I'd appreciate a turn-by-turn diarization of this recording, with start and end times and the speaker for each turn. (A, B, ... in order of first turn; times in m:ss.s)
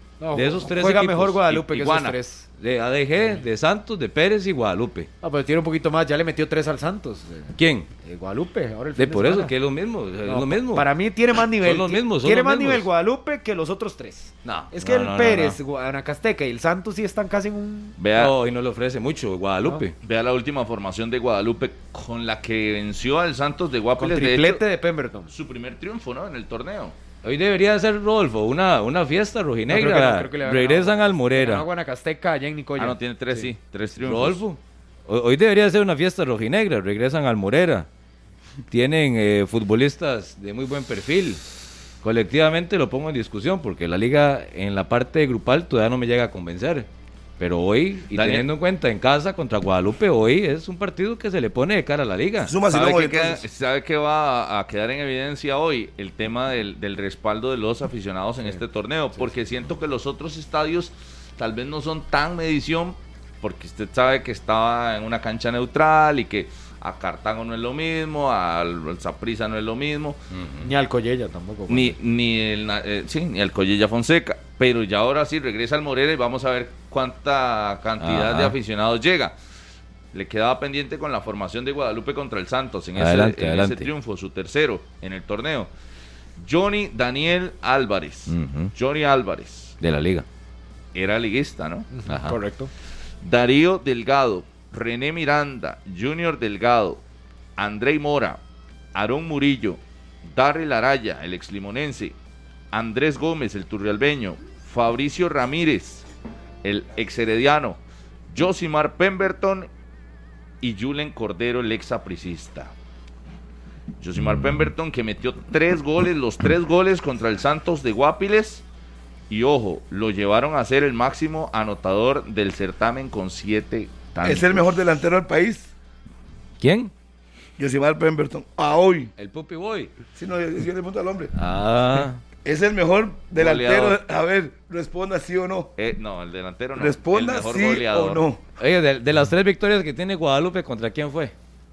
0:00.2-0:02.5 A
0:00.3-0:01.4 B
0:01.5-0:02.2 C
0:02.6-0:05.1 B
0:05.2-0:09.5 A
0:07.6-0:07.9 B
0:09.0-0:10.9 B
0:10.2-0:18.0 A
0:11.5-0:12.9 B
0:14.4-0:15.6 B
0:18.0-0:18.3 C
0:18.2-0:19.9 B
0:20.0-0:24.6 C
0:24.0-0:25.3 A
0:25.3-0:26.9 C
0:27.2-0:31.6 B
0:29.7-0:33.5 A
0:32.8-0:34.4 C
0:34.0-0:37.9 B
0:38.7-0:41.4 B
0:42.0-0:46.9 B
0:47.4-0:52.5 B
0:48.1-0:48.5 C
0:52.4-0:53.4 D
0:52.7-1:10.2 C
1:10.3-1:10.6 B
1:10.6-1:12.0 A
1:11.7-1:19.3 C
1:18.0-1:18.6 B
1:20.1-1:25.7 C
1:23.0-1:23.9 B
1:26.4-1:29.8 C
1:28.3-1:28.7 B
1:29.8-1:30.2 B
1:30.9-1:31.9 C
1:31.9-1:32.7 A
1:32.1-1:32.4 B
1:33.2-1:37.0 C
1:37.6-1:38.4 C
1:38.9-1:42.1 C
1:42.7-1:46.0 C
1:46.6-1:47.8 C
1:48.3-1:49.7 C
1:50.6-1:52.7 C
1:54.0-1:58.6 C
1:59.3-2:04.8 C
2:04.2-2:05.7 D
2:06.6-2:06.9 B
2:07.6-2:09.1 D
2:09.2-2:09.9 B
2:10.2-2:11.3 D
2:11.3-2:12.2 B
2:12.4-2:15.7 D
2:13.3-2:14.0 C
2:15.8-2:18.2 C
2:16.7-2:18.4 D
2:18.6-2:21.3 B